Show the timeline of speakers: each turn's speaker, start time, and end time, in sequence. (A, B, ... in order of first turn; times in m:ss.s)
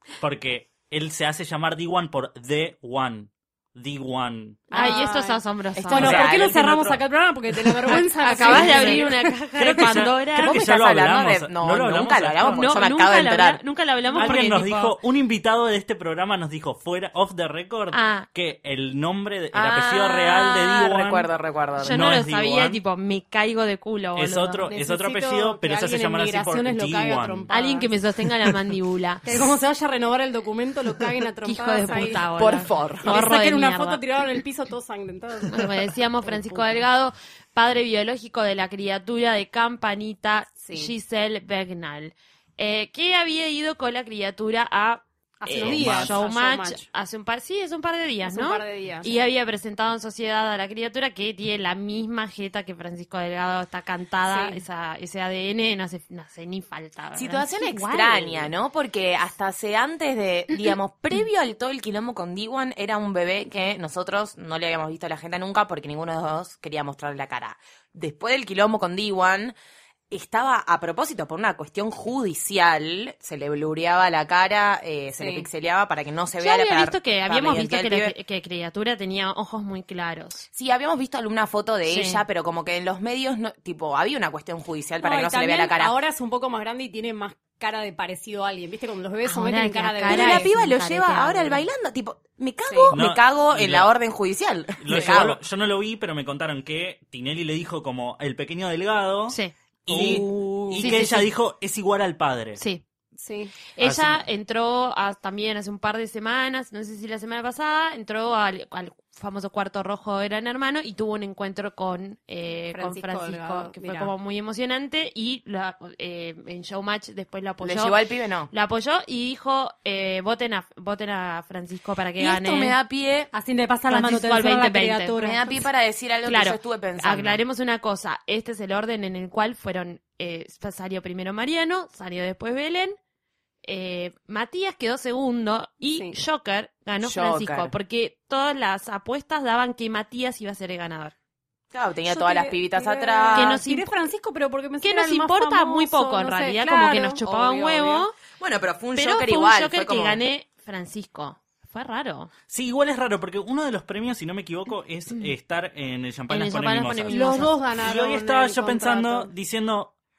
0:00.2-0:04.7 A
0:04.7-0:05.4 B
0:04.7-0:06.2 C
0:05.8-0:07.0 D
0:05.9-0:09.2 B
0:05.9-0:06.8 A
0:07.8-0:10.6 C
0:08.2-0:09.0 D
0:08.4-0:12.6 A
0:10.4-0:13.6 D
0:12.5-0:15.0 C
0:14.1-0:14.4 B
0:14.2-0:21.3 A
0:17.9-0:18.3 C
0:19.5-0:22.2 D
0:21.8-0:24.7 C
0:21.8-0:22.8 A
0:24.2-0:27.5 A
0:24.7-0:27.9 B
0:27.5-0:29.2 C
0:29.2-0:32.3 B
0:31.4-0:34.0 C
0:32.3-0:33.1 D
0:33.0-0:35.7 B
0:35.5-0:58.5 C
0:36.2-0:36.8 B
0:40.6-0:40.9 B
0:45.4-0:46.9 B
0:45.6-0:46.2 A
0:48.2-0:49.2 B
0:54.2-0:54.6 B
0:57.1-1:09.5 D
1:10.1-1:18.1 D
1:15.2-1:15.5 B
1:16.4-1:20.5 C
1:20.5-1:25.9 D
1:21.8-1:22.2 C
1:25.0-1:30.5 B
1:29.2-1:31.6 C
1:30.0-1:35.4 D
1:32.7-1:33.0 B
1:32.9-1:33.9 A
1:34.8-1:42.6 A
1:39.9-1:41.0 D
1:40.7-1:41.3 C
1:42.6-1:42.8 C
1:43.2-1:43.6 B
1:43.8-1:58.0 C
1:43.8-1:44.2 A
1:52.7-1:54.1 B
1:57.6-1:58.5 D
1:58.5-2:02.8 C
2:02.2-2:03.3 D
2:03.3-2:05.6 B
2:03.9-2:05.2 C
2:05.2-2:07.4 D
2:06.2-2:13.0 C
2:13.6-2:21.1 C
2:15.8-2:16.2 B
2:17.0-2:17.7 D
2:21.7-2:23.6 D
2:22.0-2:27.2 B
2:23.3-2:23.9 C
2:24.8-2:28.1 C
2:27.2-2:30.2 D
2:29.0-2:32.3 C
2:32.5-2:39.9 A
2:36.3-2:37.5 C
2:37.1-2:39.3 B